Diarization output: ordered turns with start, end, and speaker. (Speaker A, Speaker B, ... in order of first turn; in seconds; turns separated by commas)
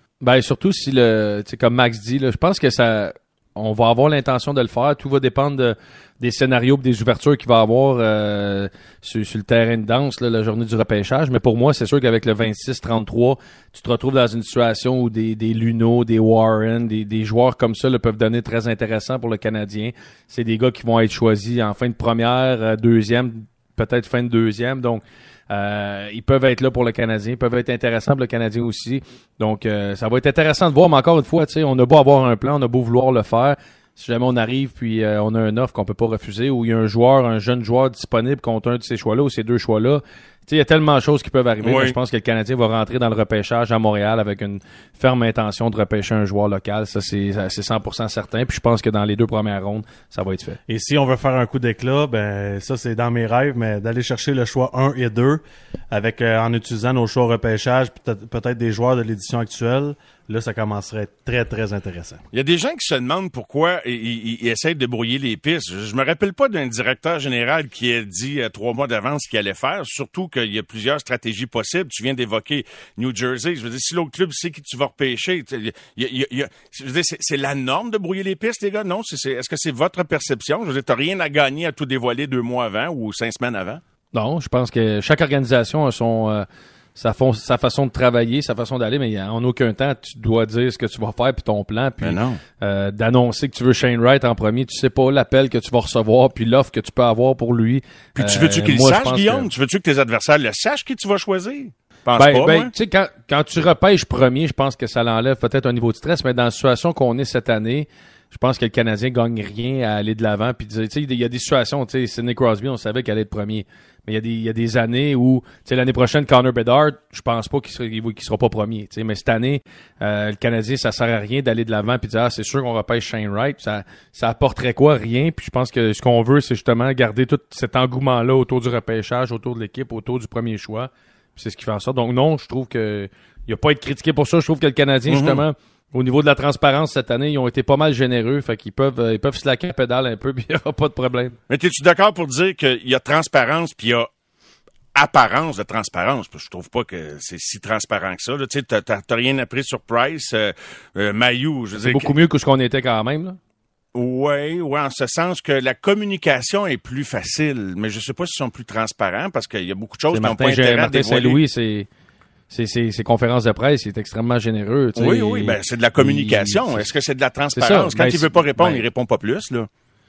Speaker A: 0.2-50.6, Speaker B: 41.6-42.0, Speaker C: 50.7-62.2, Speaker B: 62.3-83.8, Speaker A: 84.1-99.4, Speaker B: 92.0-92.4, Speaker B: 98.2-102.7, Speaker A: 102.2-141.4, Speaker B: 135.1-135.4, Speaker B: 141.5-144.1, Speaker B: 144.9-152.1, Speaker A: 151.8-153.4, Speaker B: 153.9-161.4, Speaker A: 160.1-161.9, Speaker A: 162.5-166.8, Speaker B: 164.9-169.7, Speaker A: 167.5-168.8